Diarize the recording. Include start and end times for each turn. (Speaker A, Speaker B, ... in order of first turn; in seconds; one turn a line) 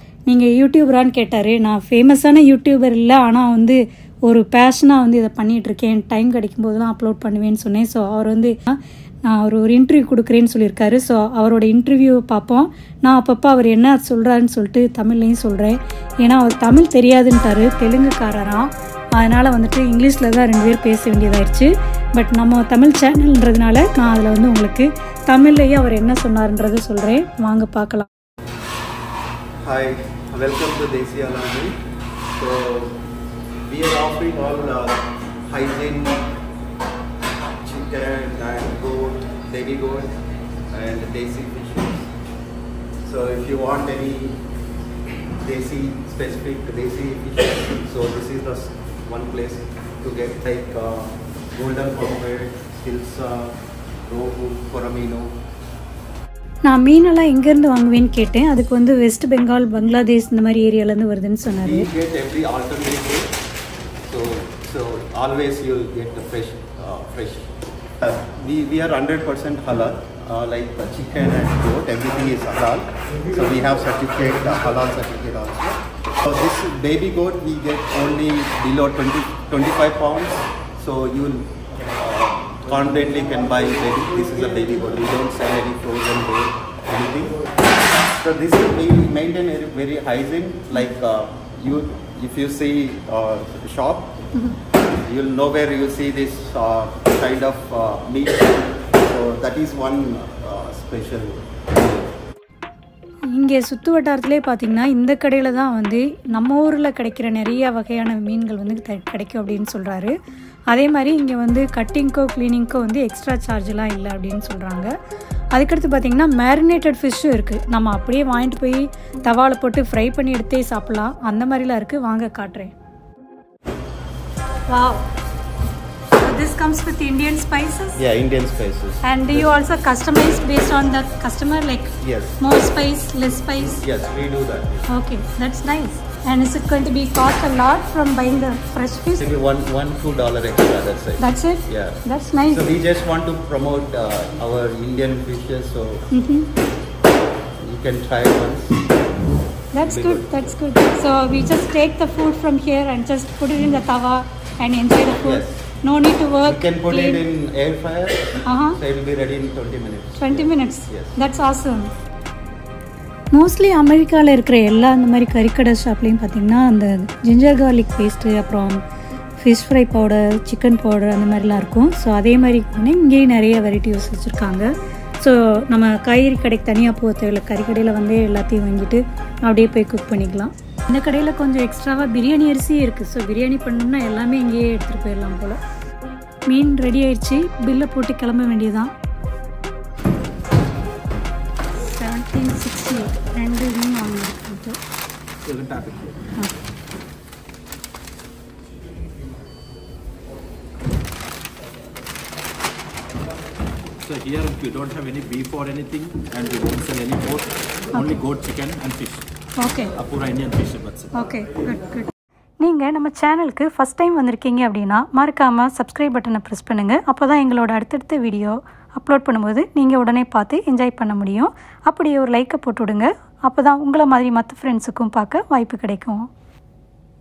Speaker A: 0.3-28.1
Speaker B: 29.6-31.8
Speaker B: 32.4-33.0
Speaker B: 33.7-36.3
Speaker B: 37.6-40.1
Speaker B: 40.7-42.1
Speaker B: 43.0-44.4
Speaker B: 45.4-55.3
Speaker A: 56.7-61.9
Speaker B: 61.6-63.3
Speaker B: 64.1-87.4
Speaker B: 88.0-94.2
Speaker B: 95.0-102.1
Speaker A: 103.3-110.1
Speaker A: 110.7-114.9
Speaker A: 115.5-122.7
Speaker A: 124.7-125.1
Speaker A: 126.2-128.0
Speaker B: 128.0-129.5
Speaker A: 129.0-133.8
Speaker B: 132.0-132.4
Speaker B: 133.8-134.9
Speaker A: 134.9-139.2
Speaker B: 139.2-146.1
Speaker A: 141.2-142.7
Speaker A: 146.1-146.5
Speaker B: 147.6-148.8
Speaker A: 149.7-157.2
Speaker B: 149.8-150.4
Speaker B: 155.2-155.6
Speaker B: 156.4-161.2
Speaker A: 158.5-158.8
Speaker A: 160.2-161.9
Speaker A: 163.3-168.8
Speaker A: 169.4-185.6
Speaker A: 186.5-188.9
Speaker A: 191.8-194.8
Speaker C: 195.4-196.2
Speaker C: 204.0-209.2
Speaker A: 209.6-209.9
Speaker C: 209.9-211.1
Speaker A: 211.1-226.3